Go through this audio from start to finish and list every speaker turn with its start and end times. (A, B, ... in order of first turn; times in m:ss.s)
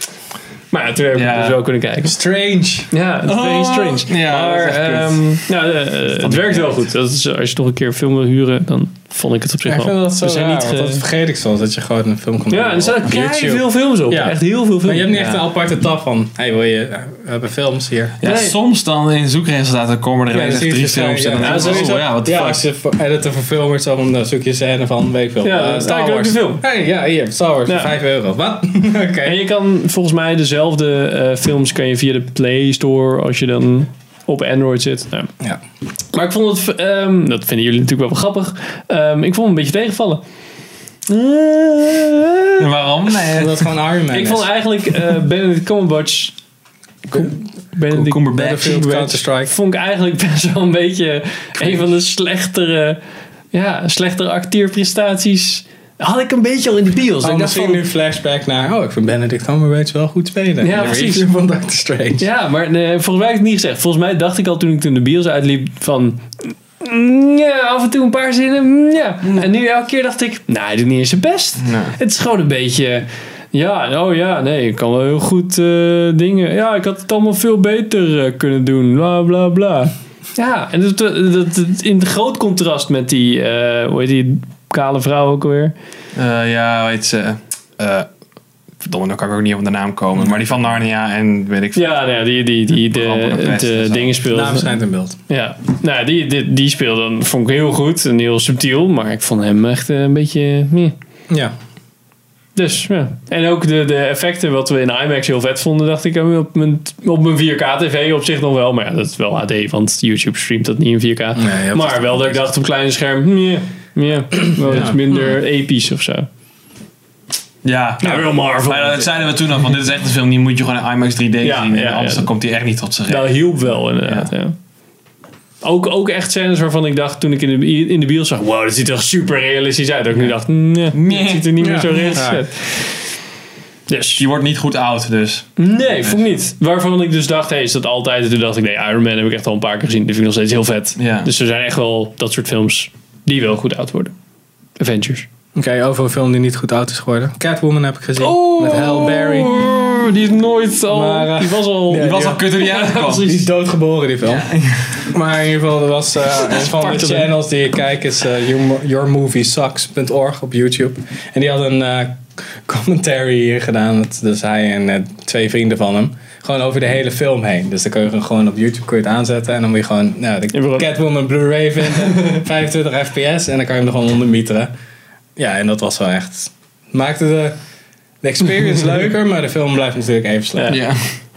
0:00.7-0:02.2 A
0:01.1-0:01.6 B
0:02.0-0:02.9 C
0:02.9-0:11.0 A
0:03.2-0:05.4 B
0:06.1-0:06.8 B
0:09.6-0:18.2 C
0:12.5-0:15.1 A
0:15.1-0:15.4 B
0:18.2-0:22.6 B
0:18.2-0:18.6 A
0:20.3-0:29.4 C
0:21.4-0:22.0 A
0:25.4-0:26.6 A
0:27.7-0:28.0 A
0:29.2-0:35.3 A
0:36.1-0:40.2 A
0:41.1-0:42.7 A
0:42.6-0:43.7 B
0:43.3-0:44.5 C
0:44.1-0:46.3 A
0:47.1-0:53.0 A
0:47.9-0:48.8 B
0:48.3-0:49.5 C
0:53.5-0:57.8 A
0:57.2-1:02.2 C
1:00.6-1:01.3 A
1:02.2-1:25.7 A
1:11.6-1:12.0 B
1:26.1-1:28.1 B
1:28.8-1:32.0 B
1:31.8-1:41.0 A
1:32.9-1:34.2 B
1:34.3-1:35.2 C
1:42.6-1:56.3 A
1:51.4-1:52.4 C
1:54.5-1:55.0 C
1:57.6-2:03.4 B
1:58.0-1:59.3 A
2:01.4-2:02.3 A
2:03.1-2:04.6 A
2:04.0-2:04.3 B
2:05.6-2:13.1 A
2:10.9-2:11.6 B
2:11.6-2:12.4 C
2:13.9-2:14.2 A
2:14.2-2:15.5 B
2:15.6-2:24.1 A
2:21.0-2:21.3 B
2:24.8-2:25.3 A
2:25.6-2:29.5 C
2:28.2-2:33.5 A
2:30.9-2:54.7 C
2:31.9-2:33.4 B
2:34.2-2:35.0 B
2:36.4-2:37.3 A
2:50.5-2:50.9 A
2:55.4-2:57.6 C
2:58.2-3:00.8 C
3:00.7-3:01.1 B